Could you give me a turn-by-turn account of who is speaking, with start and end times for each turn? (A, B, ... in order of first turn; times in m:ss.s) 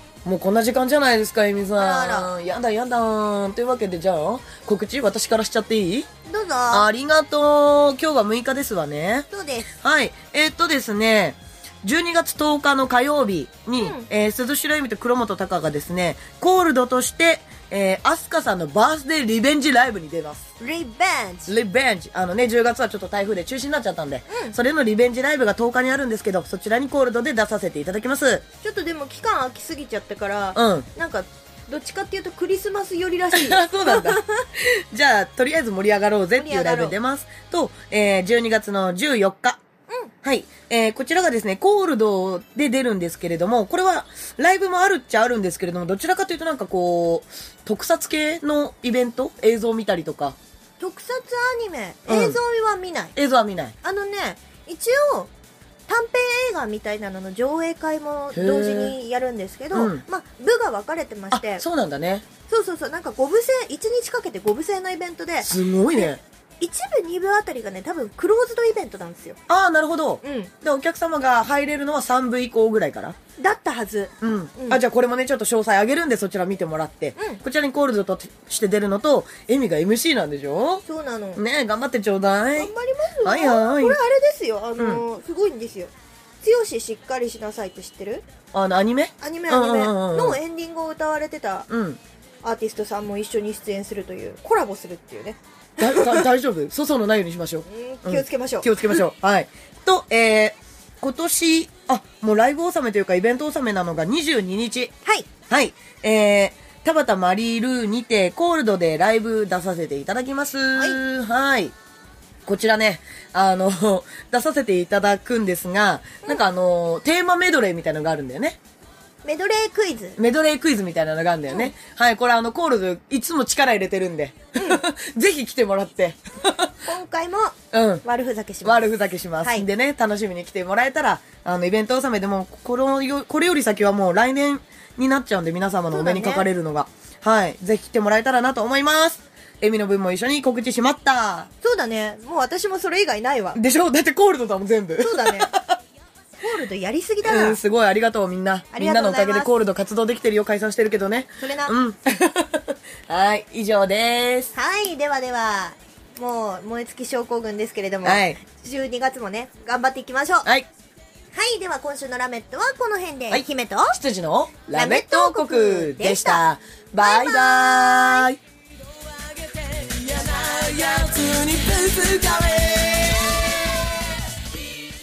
0:00.2-0:06.1 A
0:01.8-0:02.3 B
0:06.3-0:06.9 B
0:06.7-0:20.5 A
0:09.3-0:09.7 B
0:13.8-0:14.1 B
0:20.6-0:21.5 B
0:21.5-0:28.4 A
0:24.3-0:24.6 B
0:28.6-0:34.4 B
0:30.6-0:30.9 A
0:33.3-0:39.6 A
0:36.4-0:37.0 B
0:40.2-0:50.4 A
0:50.8-0:53.1 B
0:52.1-0:52.4 A
0:53.2-0:53.8 A
0:53.8-0:55.3 B
0:55.9-1:01.6 B
0:58.3-0:59.0 A
0:59.7-1:00.0 A
1:01.3-1:02.3 A
1:02.5-1:09.4 B
1:05.4-1:06.2 A
1:09.5-1:13.2 A
1:10.2-1:10.5 B
1:13.4-1:14.8 B
1:14.2-1:20.8 A
1:20.9-1:21.4 B
1:21.4-1:22.7 A
1:22.6-1:25.9 B
1:23.2-1:24.0 A
1:24.8-1:25.0 A
1:26.4-1:28.3 B
1:28.5-1:30.4 A
1:29.2-1:31.7 B
1:31.7-1:32.0 A
1:32.4-1:36.3 B
1:35.8-1:44.9 A
1:37.7-1:39.0 B
1:45.0-1:45.3 B
1:45.5-1:51.8 A
1:50.8-1:51.0 B
1:52.5-1:58.6 A
1:59.2-2:00.2 B
2:00.2-2:06.8 A
2:04.6-2:04.8 B
2:06.8-2:08.9 B
2:07.7-2:08.0 A
2:08.6-2:21.5 A
2:09.4-2:09.7 B
2:15.9-2:16.5 B
2:21.6-2:23.6 B
2:23.6-2:25.8 A
2:25.0-2:25.5 B
2:26.4-2:27.6 B
2:27.2-2:34.5 A
2:28.7-2:29.5 B
2:31.4-2:31.7 B
2:34.5-2:40.5 B
2:38.0-2:38.4 A
2:41.3-2:44.0 B
2:43.3-2:48.4 A
2:44.7-2:46.4 B
2:47.0-2:48.3 B
2:49.1-2:54.4 A